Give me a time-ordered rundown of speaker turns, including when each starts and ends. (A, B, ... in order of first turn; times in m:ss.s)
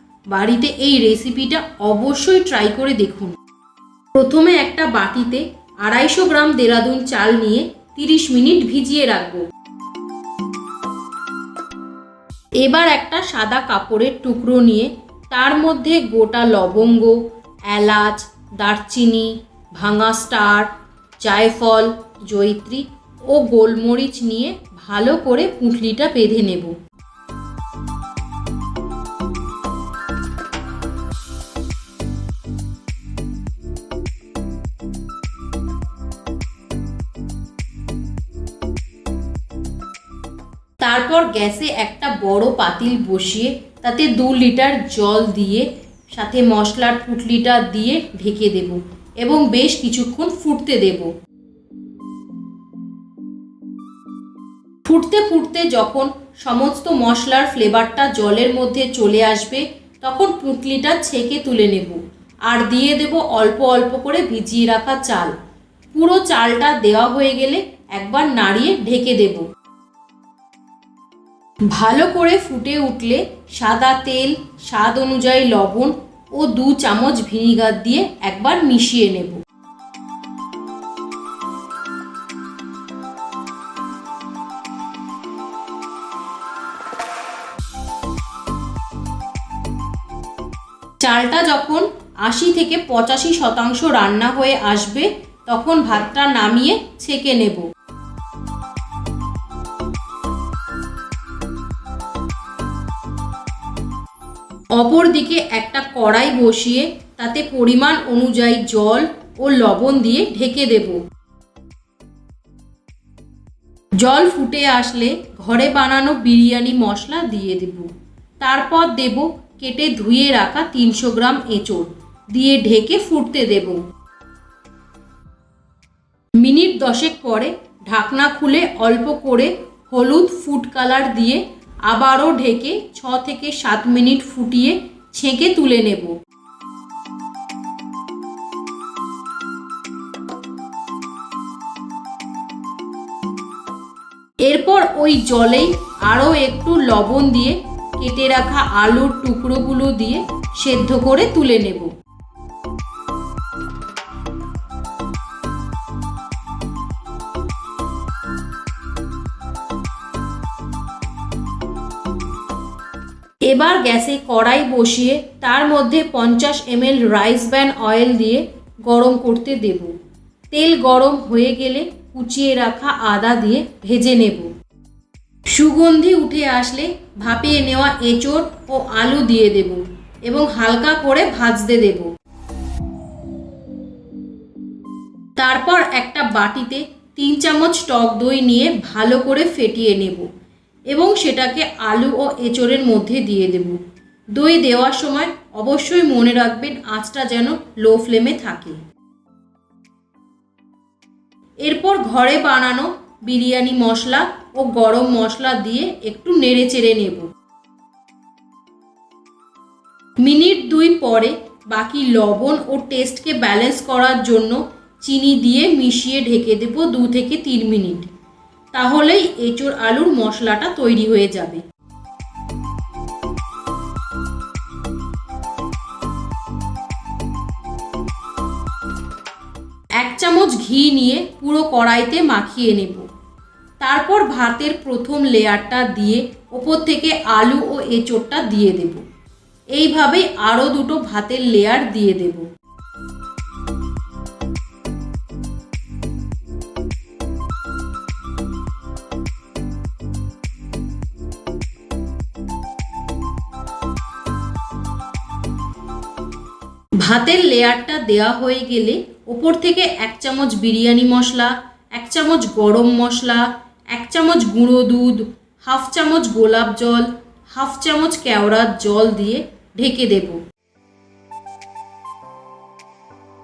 0:00.3-0:03.4 A
0:04.2-0:09.4 A
0:12.6-0:17.2 A
0:17.7-0:26.8 A
0:40.8-0:51.1 A
0:54.8-1:05.3 A
1:05.9-1:09.5 A
1:11.7-1:19.4 A
1:31.0-1:37.7 A
1:44.8-1:51.0 A
1:54.0-2:03.8 A
2:06.4-2:16.2 A
2:24.4-2:31.9 A
2:43.5-2:49.9 A
2:50.5-2:54.5 A
2:55.5-3:02.1 A
3:05.4-3:10.3 A
3:10.9-3:13.8 A
3:14.4-3:18.8 A
3:21.6-3:27.3 A
3:30.2-3:38.1 A
3:38.7-3:41.6 A
3:50.0-3:53.1 A
3:53.8-3:59.0 A
3:59.7-4:02.5 A
4:17.0-4:30.4 A